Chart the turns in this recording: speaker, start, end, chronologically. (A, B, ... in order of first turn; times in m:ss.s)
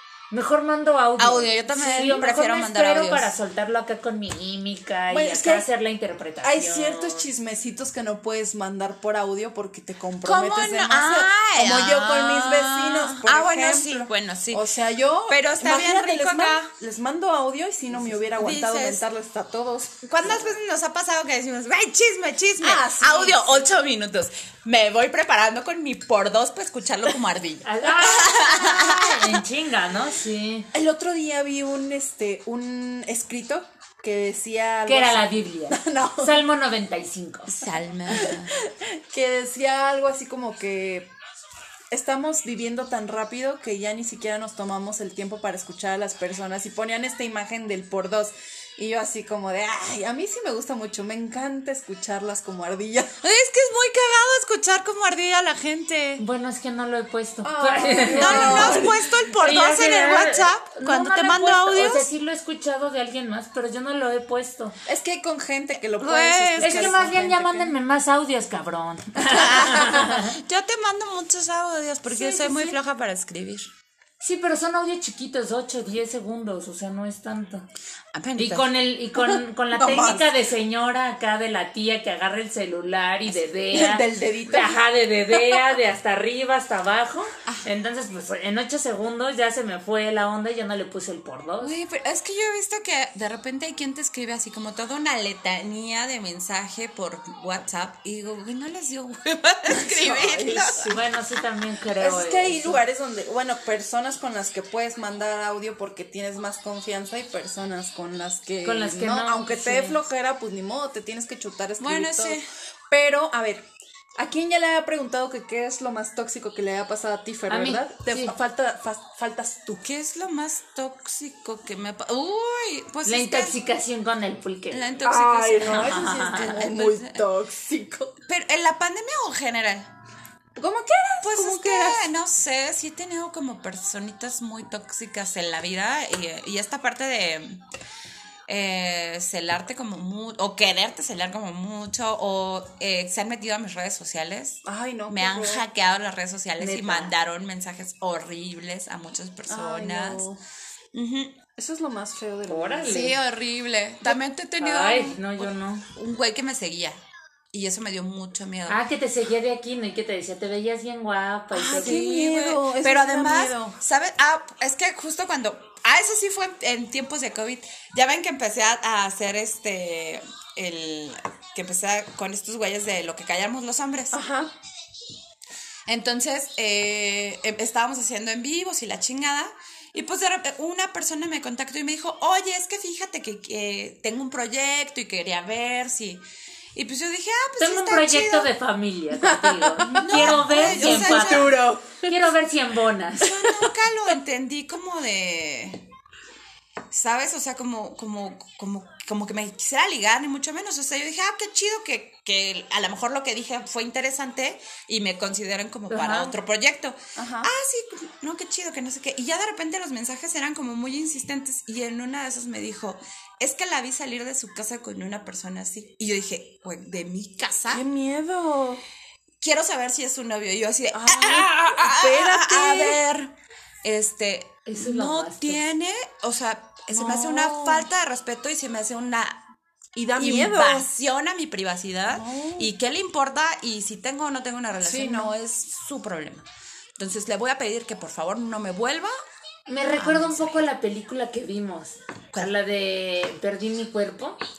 0:00.3-0:07.3 A
0:01.2-0:03.3 B
0:05.1-0:05.7 C
0:06.4-0:20.6 C
0:10.2-0:14.7 B
0:15.3-0:16.7 B
0:18.0-0:19.0 B
0:20.0-0:29.4 B
0:22.6-0:23.7 C
0:27.6-0:30.7 A
0:30.7-0:36.4 C
0:34.9-0:37.7 A
0:37.5-0:38.6 B
0:38.1-0:41.1 C
0:41.9-0:53.1 C
0:53.2-0:56.2 B
0:56.2-1:04.8 A
0:57.4-0:59.0 C
0:58.1-1:02.1 B
1:04.9-1:07.7 C
1:06.0-1:07.0 B
1:06.6-1:10.4 A
1:09.3-1:13.7 B
1:12.1-1:12.8 C
1:14.2-1:17.7 A
1:18.1-1:18.7 B
1:18.4-1:31.8 A
1:19.2-1:20.3 C
1:23.7-1:24.8 C
1:25.4-1:25.6 C
1:31.6-1:41.0 B
1:39.7-1:41.0 C
1:40.9-1:42.8 A
1:42.0-1:59.8 C
1:48.6-1:50.0 A
1:51.8-1:52.4 B
1:57.5-1:58.4 A
1:59.8-2:03.6 B
2:03.0-2:05.0 A
2:04.7-2:07.2 B
2:05.0-2:08.2 C
2:05.6-2:06.6 A
2:08.3-2:09.9 B
2:10.6-2:12.1 C
2:11.2-2:17.6 B
2:18.5-2:30.2 B
2:24.6-2:25.6 C
2:26.6-2:27.1 A
2:29.5-2:30.4 C
2:30.9-2:31.4 B
2:31.6-2:33.2 C
2:32.5-2:33.1 A
2:32.8-2:37.0 B
2:34.6-2:35.9 A
2:37.5-2:38.8 B
2:38.7-2:42.0 A
2:41.5-2:43.8 C
2:41.6-2:54.2 B
2:54.1-2:54.5 C
2:55.9-3:06.2 B
3:06.8-3:08.5 B
3:07.6-3:13.4 A
3:09.1-3:12.2 C
3:10.0-3:11.6 B
3:13.2-3:15.8 B
3:13.4-3:13.7 C
3:16.9-3:37.8 B
3:25.9-3:26.4 A
3:27.2-3:27.5 C
3:37.7-3:38.8 C
3:39.4-3:43.3 B
3:40.9-3:43.0 C
3:43.8-3:49.4 B
3:44.7-3:45.6 A
3:46.9-3:47.9 C
3:50.0-3:50.9 C
3:50.1-3:56.4 B
3:52.1-3:52.7 C
3:54.8-3:55.3 C
3:57.0-3:59.1 B
3:59.7-4:04.4 A
3:59.9-4:00.7 B